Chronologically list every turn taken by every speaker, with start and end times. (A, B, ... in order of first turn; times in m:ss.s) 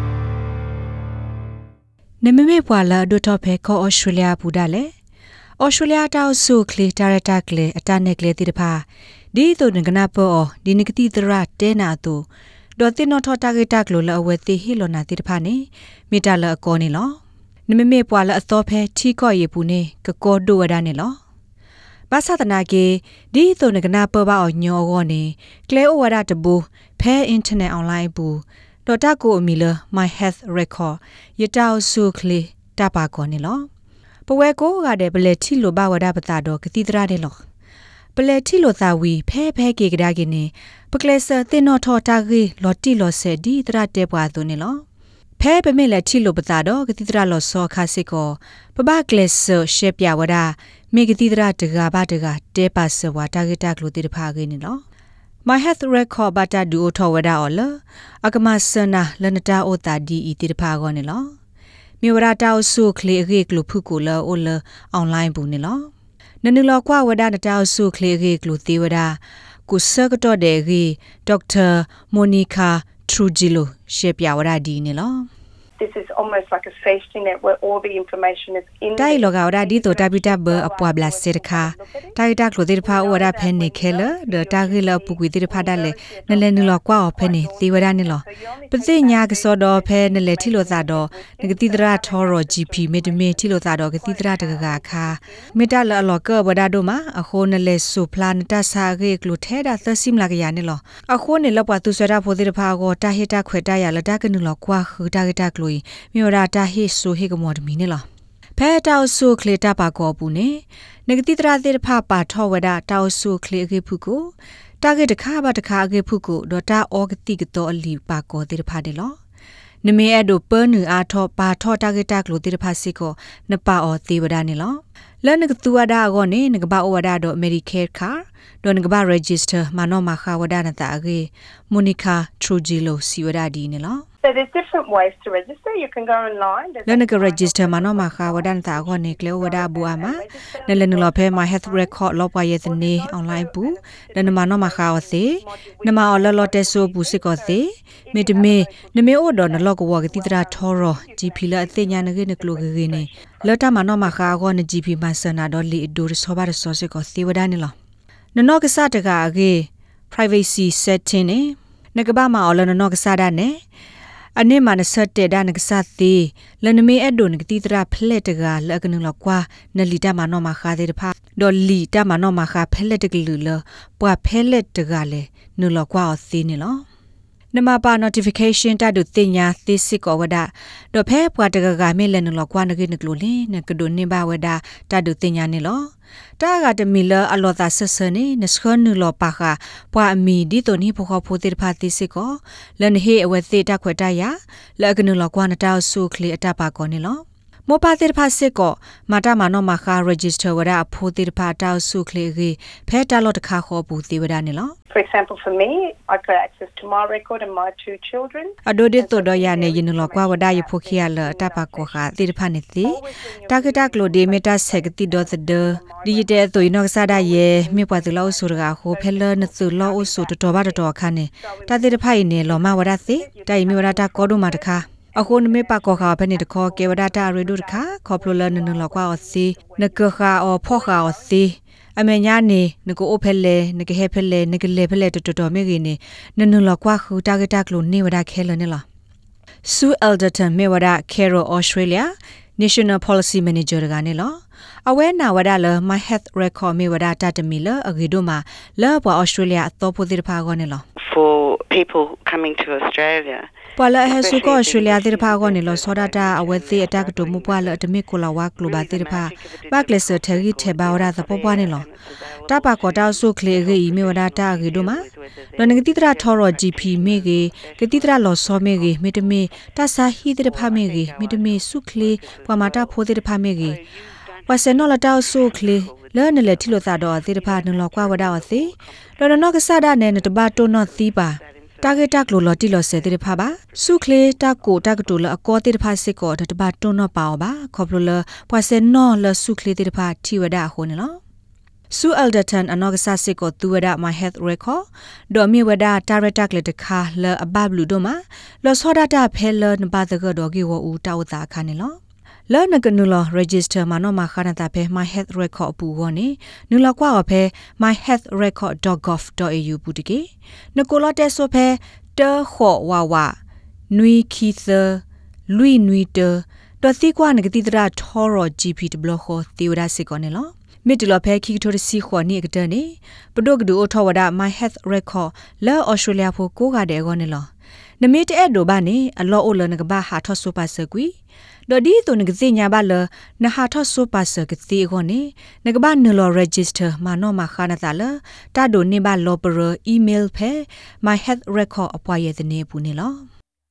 0:02.2-0:04.9 A
0:05.6-0:12.2 A
0:12.8-0:21.2 A
0:22.1-0:33.7 A
0:34.3-0:37.4 A
0:38.2-0:44.8 A
0:45.4-0:54.8 A
0:55.4-1:01.3 A
1:02.0-1:05.9 A
1:06.4-1:15.3 A
1:15.8-1:22.2 B
1:19.0-1:48.0 A
1:22.8-1:35.6 B
1:48.6-1:59.2 A
1:59.8-2:14.0 A
2:14.2-2:22.0 B
2:16.8-2:37.7 A
2:22.6-2:34.4 B
2:38.3-2:43.6 A
2:44.4-2:56.8 A
2:57.5-3:24.7 A
3:24.9-3:32.2 B
3:28.6-3:58.8 A
3:32.8-3:40.8 B
3:41.4-3:51.4 B
3:59.6-4:10.8 A
4:11.0-4:13.5 C
4:13.8-4:21.8 A
4:14.0-4:17.8 C
4:18.6-4:29.6 C
4:22.5-4:25.0 A
4:25.6-4:33.8 A
4:30.3-4:39.3 C
4:34.5-4:51.2 A
4:40.0-4:45.3 C
4:51.9-5:02.0 A
5:02.5-5:13.4 A
5:13.9-5:27.5 A
5:28.0-5:31.1 A
5:31.7-5:43.2 A